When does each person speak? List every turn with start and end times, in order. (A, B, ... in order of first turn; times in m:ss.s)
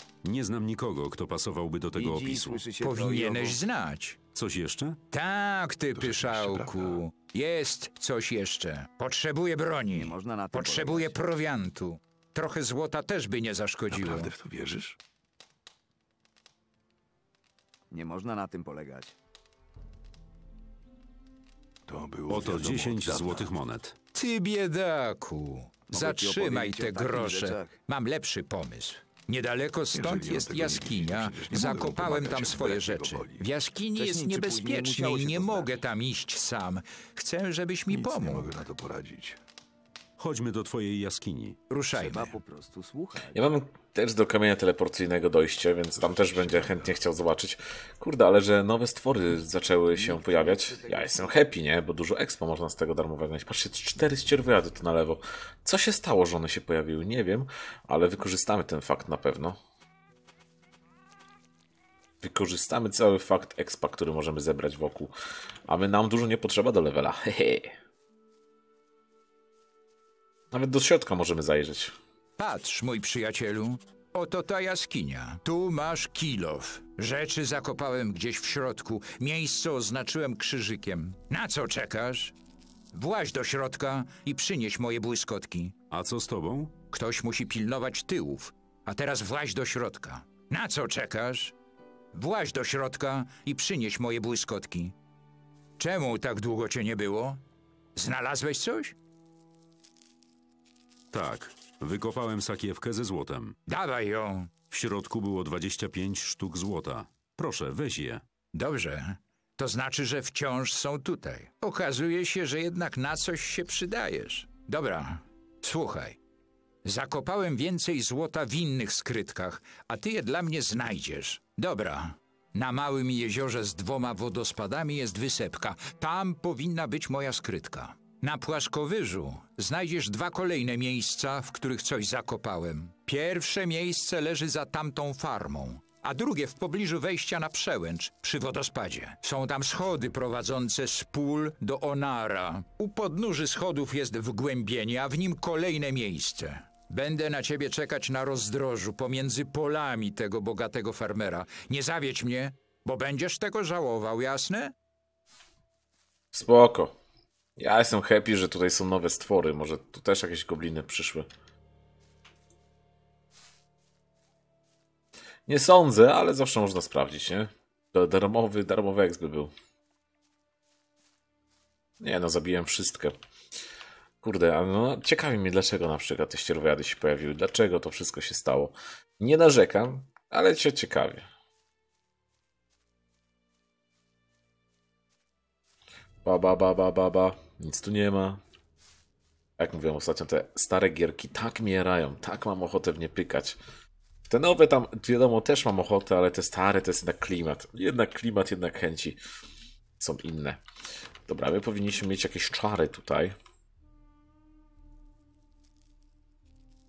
0:00.2-0:02.6 A
0:01.9-0:03.6 B
0:02.8-0:04.2 C
0:04.3-0:05.0 A
0:05.1-0:14.3 C
0:05.9-0:07.0 D
0:09.9-0:11.2 B
0:13.9-0:15.0 D
0:17.9-0:19.2 B
0:21.9-0:23.6 D
0:22.3-0:24.0 A
0:24.1-0:38.6 C
0:25.9-0:27.8 B
0:29.9-0:33.5 D
0:33.9-0:35.8 B
0:37.9-0:39.4 D
0:40.2-0:41.6 A
0:41.7-0:42.3 C
0:42.0-0:43.5 B
0:43.3-0:59.6 E
0:46.0-0:47.0 D
0:49.9-0:51.5 B
1:02.2-1:05.1 E
1:05.7-1:07.7 E
1:10.5-1:11.9 E
1:12.4-1:22.3 C
1:22.9-1:25.7 C
1:25.9-1:26.7 A
1:26.9-1:31.5 C
1:32.1-1:34.9 C
1:35.8-1:37.4 C
1:38.0-1:39.0 C
1:41.1-1:43.6 A
1:43.7-1:44.5 C
1:44.7-1:48.2 A
1:48.5-1:56.2 C
1:56.8-2:34.7 C
2:36.3-2:36.9 E
2:37.6-2:41.3 E
2:45.5-2:49.5 E
2:52.0-2:53.2 E
2:54.2-3:01.2 E
3:06.2-3:08.4 E
3:09.6-3:13.6 E
3:14.3-3:19.2 E
3:20.0-3:20.6 E
3:21.2-3:23.3 E